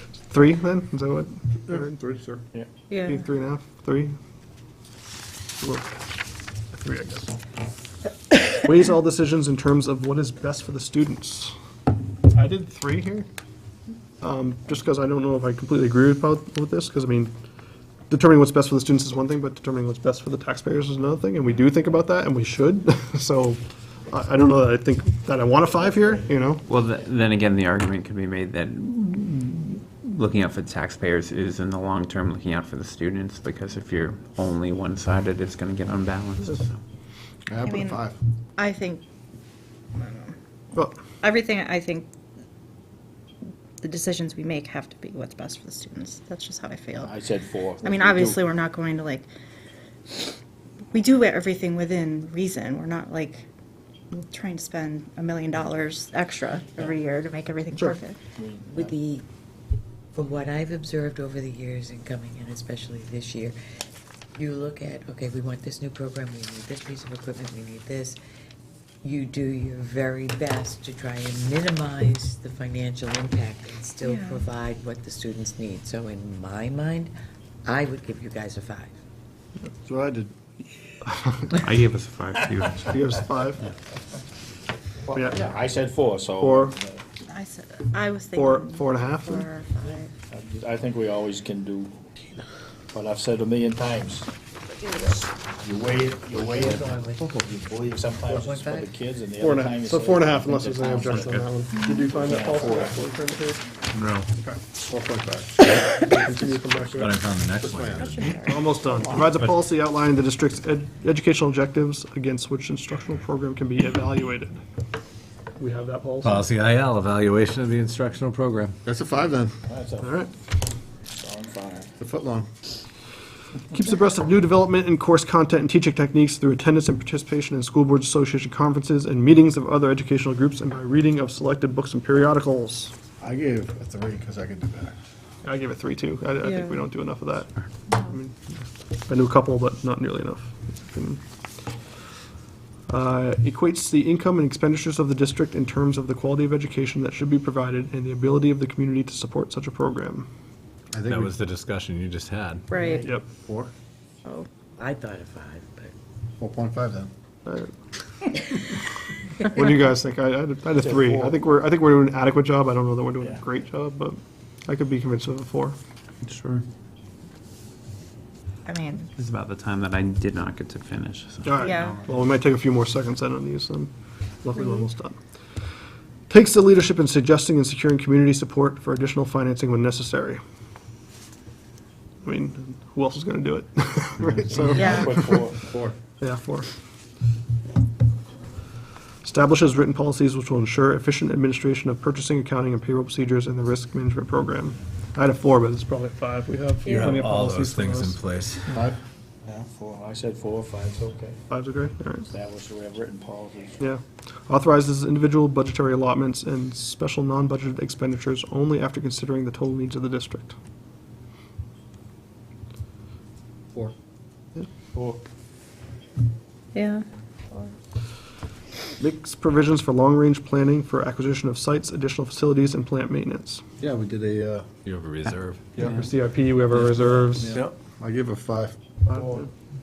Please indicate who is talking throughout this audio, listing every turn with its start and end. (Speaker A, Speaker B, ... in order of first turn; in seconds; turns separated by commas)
Speaker A: 0.3-1.9, Speaker B: 1.7-2.4, Speaker C: 2.9-3.2, Speaker A: 3.0-4.1, Speaker A: 5.6-6.0, Speaker A: 6.7-7.3, Speaker A: 8.5-11.5, Speaker A: 12.3-13.3, Speaker A: 14.2-17.3, Speaker A: 18.1-23.6, Speaker A: 24.1-26.6, Speaker D: 26.7-36.8, Speaker B: 37.5-38.2, Speaker C: 37.6-38.0, Speaker C: 38.6-39.0, Speaker C: 39.9-40.3, Speaker C: 41.2-42.1, Speaker C: 43.8-47.2, Speaker E: 47.0-48.4, Speaker C: 47.8-49.3, Speaker C: 50.1-50.4, Speaker C: 50.9-53.5, Speaker C: 54.2-58.3, Speaker E: 58.3-58.9, Speaker F: 58.6-59.2, Speaker F: 60.1-63.6, Speaker F: 64.3-68.2, Speaker F: 69.0-77.1, Speaker C: 74.0-74.4, Speaker F: 77.6-78.9, Speaker B: 79.8-80.3, Speaker D: 81.6-82.9, Speaker A: 82.9-83.6, Speaker E: 85.1-87.0, Speaker A: 86.4-86.7, Speaker C: 87.3-90.2, Speaker A: 88.3-89.5, Speaker E: 90.3-92.0, Speaker E: 92.9-94.3, Speaker E: 95.1-103.0, Speaker F: 96.3-97.3, Speaker F: 98.2-98.9, Speaker A: 99.4-103.6, Speaker C: 101.7-102.0, Speaker G: 104.0-104.2, Speaker B: 104.9-105.7, Speaker A: 106.0-107.1, Speaker G: 106.9-108.4, Speaker B: 107.6-108.2, Speaker C: 108.1-109.2, Speaker A: 108.4-114.6, Speaker A: 115.6-116.5, Speaker G: 116.2-118.8, Speaker B: 118.8-119.5, Speaker E: 119.7-120.2, Speaker A: 120.0-120.3, Speaker E: 121.0-121.9, Speaker B: 122.0-122.5, Speaker A: 123.7-132.9, Speaker B: 133.2-134.9, Speaker A: 135.4-138.4, Speaker C: 136.4-136.8, Speaker A: 139.1-141.2, Speaker A: 142.9-150.3, Speaker B: 150.9-151.4, Speaker G: 151.0-152.7, Speaker C: 152.7-153.0, Speaker F: 152.8-153.0, Speaker B: 153.4-153.7, Speaker F: 154.8-155.9, Speaker B: 156.4-157.1, Speaker A: 157.4-157.7, Speaker A: 159.4-165.8, Speaker E: 160.8-161.3, Speaker D: 166.3-166.5, Speaker C: 168.6-169.1, Speaker D: 169.2-171.9, Speaker A: 171.4-173.9, Speaker C: 171.6-172.0, Speaker A: 174.4-175.2, Speaker C: 174.6-174.8, Speaker A: 176.3-180.4, Speaker A: 182.2-185.4, Speaker E: 184.5-185.9, Speaker C: 184.8-185.2, Speaker A: 186.2-186.7, Speaker A: 189.2-198.8, Speaker C: 196.8-197.2, Speaker G: 196.9-198.8, Speaker E: 199.4-201.4, Speaker A: 201.5-202.3, Speaker E: 202.3-203.8, Speaker A: 203.8-210.5, Speaker E: 214.9-215.2, Speaker C: 216.7-217.0, Speaker A: 219.0-223.6, Speaker B: 223.8-224.7, Speaker G: 224.8-225.7, Speaker A: 225.8-227.6, Speaker B: 227.4-229.3